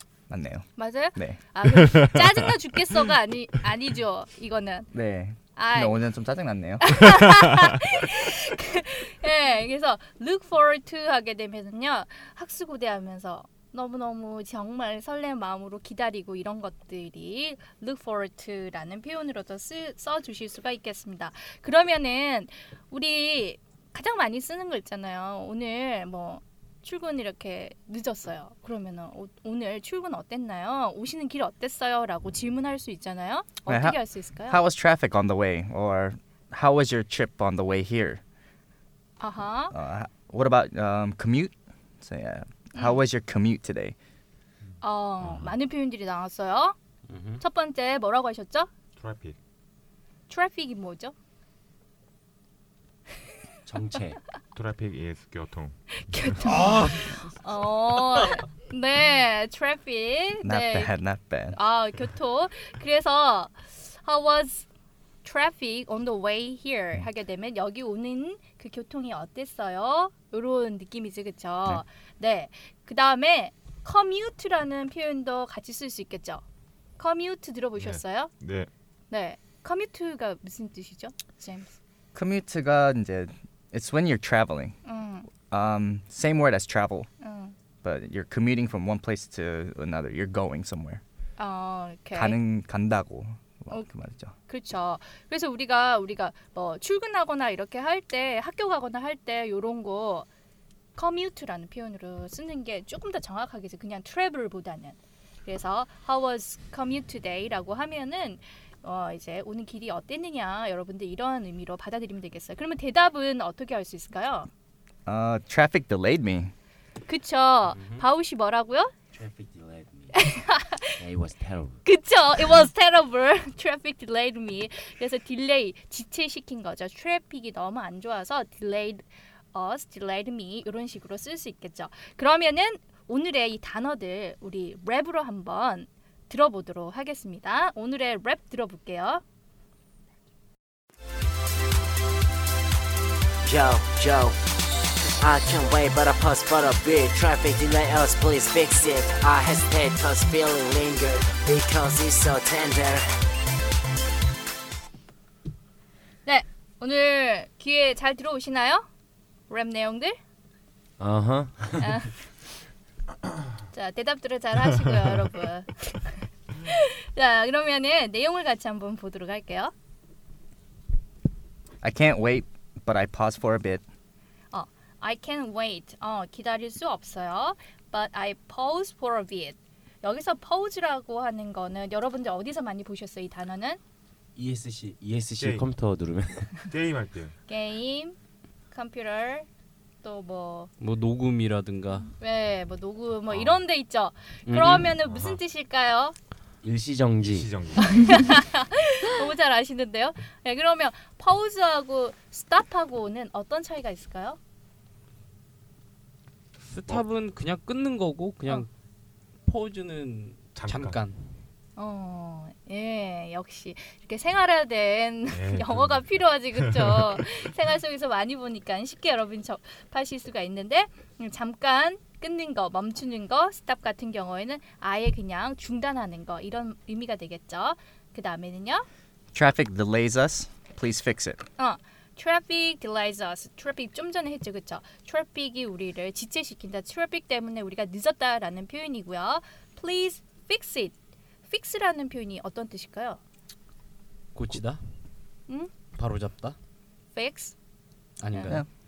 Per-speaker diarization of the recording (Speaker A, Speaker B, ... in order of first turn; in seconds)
Speaker A: 0.3-1.4, 4.9-7.1, 33.7-38.2, 39.7-44.0, 60.4-61.6, 82.1-84.8, 85.5-87.1, 87.8-91.0, 92.1-94.3, 115.1-116.5, 171.8-173.8, 229.3-231.4
Speaker B: 0.8-4.9, 5.6-6.0, 6.8-34.6, 39.2-39.8, 42.8-43.0, 44.8-46.8, 47.4-48.7, 50.3-51.1, 56.0-60.9, 61.5-64.7, 65.2-76.4, 77.0-78.3, 79.1-81.8, 84.8-85.3, 87.2-87.6, 91.4-92.4, 94.5-100.3, 101.0-114.5, 117.1-118.9, 120.1-121.0, 121.8-139.2, 156.3-158.9, 159.5-160.2, 161.8-162.1, 163.7-169.7, 174.5-183.8, 187.5-188.2, 188.7-189.5, 190.0-190.7, 192.0-196.2, 197.8-204.4, 211.8-228.9, 231.6-240.9, 241.5-243.2, 247.2-247.6, 248.3-248.6
Speaker C: 1.6-2.5, 49.0-49.4, 54.5-56.4, 77.8-78.7, 185.4-185.7, 186.7-187.3, 197.2-198.2, 210.6-211.0, 215.3-217.2
Speaker D: 47.1-47.4, 56.5-57.1, 190.8-192.1, 194.5-194.9, 206.6-208.7, 209.4-211.2, 244.3-244.8, 246.0-246.6, 248.2-248.6
Speaker E: 53.7-54.2, 117.7-118.0, 119.1-120.1, 121.0-121.8, 161.0-161.9, 184.4-186.6, 196.6-197.5
Speaker F: 143.4-144.4, 145.1-153.2